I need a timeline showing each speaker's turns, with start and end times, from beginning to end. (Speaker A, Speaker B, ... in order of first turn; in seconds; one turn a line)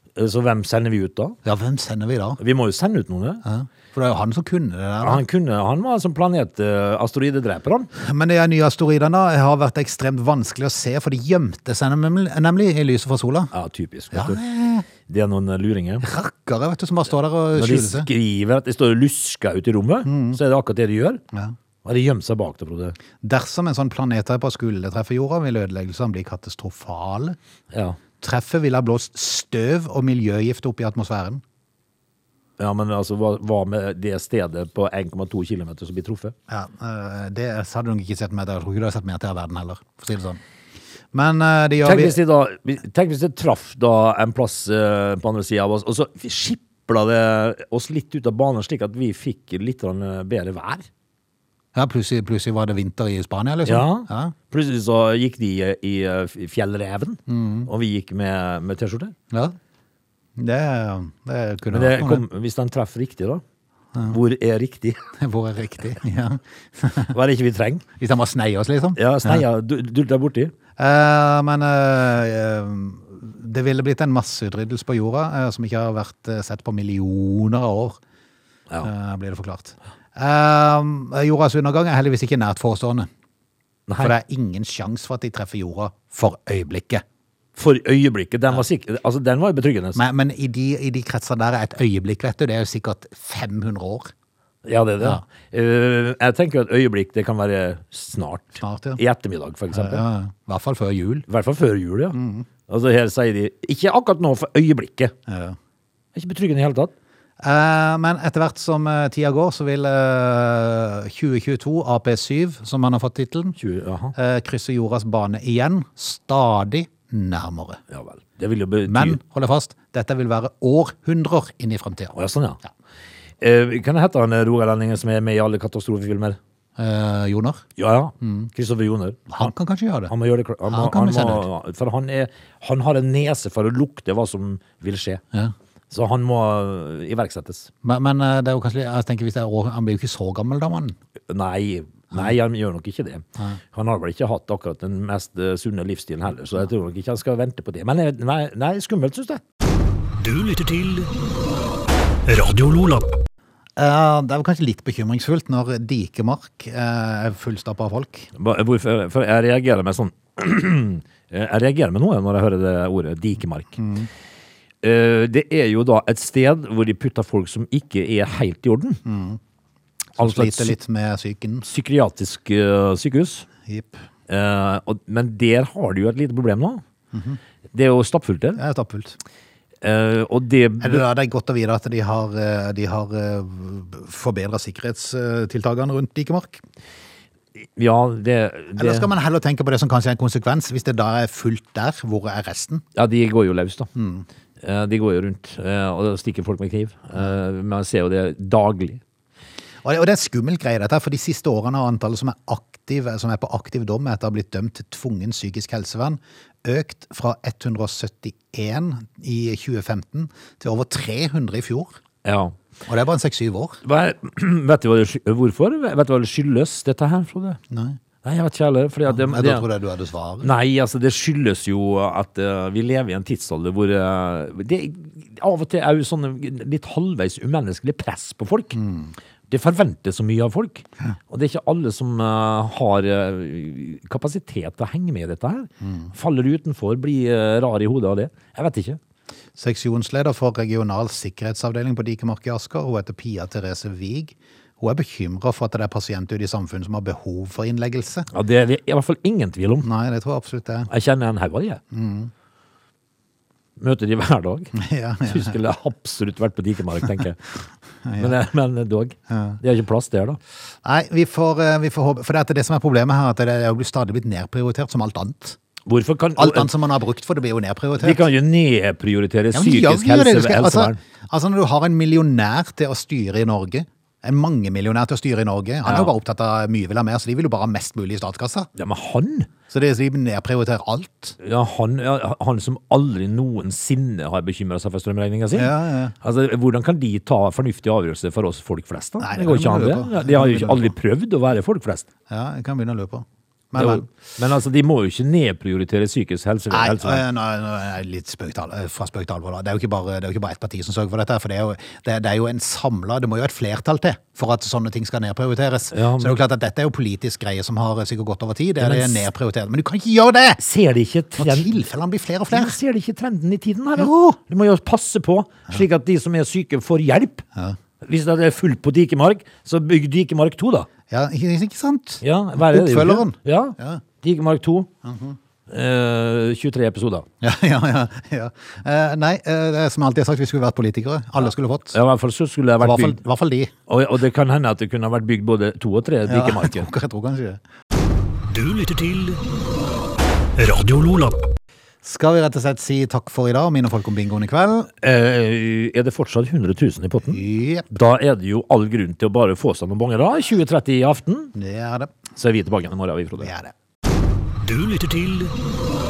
Speaker A: 0.1-1.4
Speaker B: 1.4-2.4
Speaker A: 2.4-3.4
Speaker B: 3.4-5.2
Speaker A: 5.0-7.9
Speaker B: 7.9-13.5
Speaker A: 13.5-14.4
Speaker B: 14.1-14.9
Speaker A: 15.1-16.0
Speaker B: 16.0-18.1
Speaker A: 17.5-21.2
Speaker B: 20.0-20.4
Speaker A: 21.8-23.0
Speaker B: 23.2-27.4
Speaker A: 27.7-28.0
Speaker B: 28.2-31.4
Speaker A: 32.6-36.3
Speaker B: 36.5-40.4
Speaker B: 41.1-42.2
Speaker A: 41.8-50.9
Speaker B: 51.7-54.3
Speaker A: 53.6-59.1
Speaker B: 57.3-57.7
Speaker B: 59.3-59.5
Speaker B: 60.4-62.2
Speaker A: 61.7-63.4
Speaker A: 64.0-65.0
Speaker B: 65.2-67.1
Speaker A: 67.1-67.8
Speaker B: 68.0-69.4
Speaker A: 69.0-70.5
Speaker B: 70.8-78.0
Speaker B: 78.8-83.1
Speaker A: 83.9-84.1
Speaker B: 84.0-87.0
Speaker A: 87.5-90.0
Speaker B: 89.9-94.1
Speaker A: 94.6-100.0
Speaker B: 98.6-99.0
Speaker B: 99.7-101.2
Speaker A: 101.3-105.1
Speaker B: 102.1-102.5
Speaker B: 105.3-105.6
Speaker A: 106.1-106.9
Speaker B: 107.4-113.5
Speaker A: 113.6-114.1
Speaker B: 114.1-117.8
Speaker A: 117.9-119.2
Speaker B: 118.8-122.1
Speaker A: 122.1-122.6
Speaker A: 123.4-126.4
Speaker B: 126.8-127.6
Speaker A: 127.8-129.5
Speaker B: 128.2-128.5
Speaker B: 129.3-130.1
Speaker A: 130.1-135.2
Speaker B: 130.7-131.4
Speaker A: 135.9-137.7
Speaker B: 137.8-140.9
Speaker A: 141.3-149.4
Speaker C: 150.2-151.1
Speaker C: 152.2-153.1
Speaker B: 153.8-158.3
Speaker A: 158.3-163.8
Speaker B: 163.8-164.1
Speaker A: 164.8-169.0
Speaker B: 169.0-169.4
Speaker B: 170.1-171.7
Speaker A: 170.2-170.8
Speaker A: 171.6-173.5
Speaker B: 173.7-174.0
Speaker A: 174.3-176.8
Speaker B: 177.1-177.4
Speaker A: 177.7-178.6
Speaker B: 178.6-179.2
Speaker A: 179.8-181.0
Speaker B: 180.8-186.6
Speaker A: 187.6-189.1
Speaker B: 188.8-192.8
Speaker A: 192.9-193.9
Speaker B: 193.9-194.2
Speaker A: 194.6-199.0
Speaker B: 199.8-212.0
Speaker A: 212.2-212.5
Speaker B: 212.8-213.8
Speaker A: 213.8-217.6
Speaker B: 217.7-218.0
Speaker A: 218.2-219.7
Speaker B: 219.1-220.5
Speaker A: 220.4-228.8
Speaker B: 228.7-229.1
Speaker A: 229.5-239.0
Speaker B: 235.8-236.1
Speaker B: 239.6-248.3
Speaker A: 248.3-249.9
Speaker B: 249.8-250.9
Speaker A: 250.9-251.8
Speaker B: 251.9-252.3
Speaker A: 253.8-257.4
Speaker B: 254.7-255.5
Speaker B: 258.0-258.4
Speaker A: 258.2-260.4
Speaker B: 259.3-259.6
Speaker B: 260.8-265.6
Speaker A: 265.9-266.7
Speaker B: 266.4-268.2
Speaker A: 268.0-271.0
Speaker B: 269.5-278.7
Speaker A: 275.8-276.1
Speaker A: 278.8-279.5
Speaker B: 279.7-281.4
Speaker A: 281.4-292.1
Speaker B: 285.5-286.1
Speaker B: 289.2-290.9
Speaker B: 292.3-294.1
Speaker A: 293.8-297.2
Speaker B: 296.7-310.6
Speaker A: 305.9-306.3
Speaker A: 308.8-309.2
Speaker A: 310.6-311.7
Speaker B: 311.4-312.8
Speaker A: 312.5-317.4
Speaker B: 314.0-314.4
Speaker A: 318.0-320.9
Speaker B: 321.1-324.0
Speaker A: 322.2-324.9
Speaker B: 325.0-325.4
Speaker A: 325.7-327.2
Speaker B: 327.4-332.0
Speaker A: 331.4-333.2
Speaker B: 332.8-333.7
Speaker A: 333.9-336.9
Speaker B: 336.2-337.6
Speaker C: 338.5-339.4
Speaker C: 340.6-341.4
Speaker B: 342.0-344.9
Speaker A: 345.0-351.5
Speaker B: 347.2-347.9
Speaker B: 351.5-352.1
Speaker A: 352.3-353.5
Speaker B: 353.4-353.7
Speaker C: 354.6-355.5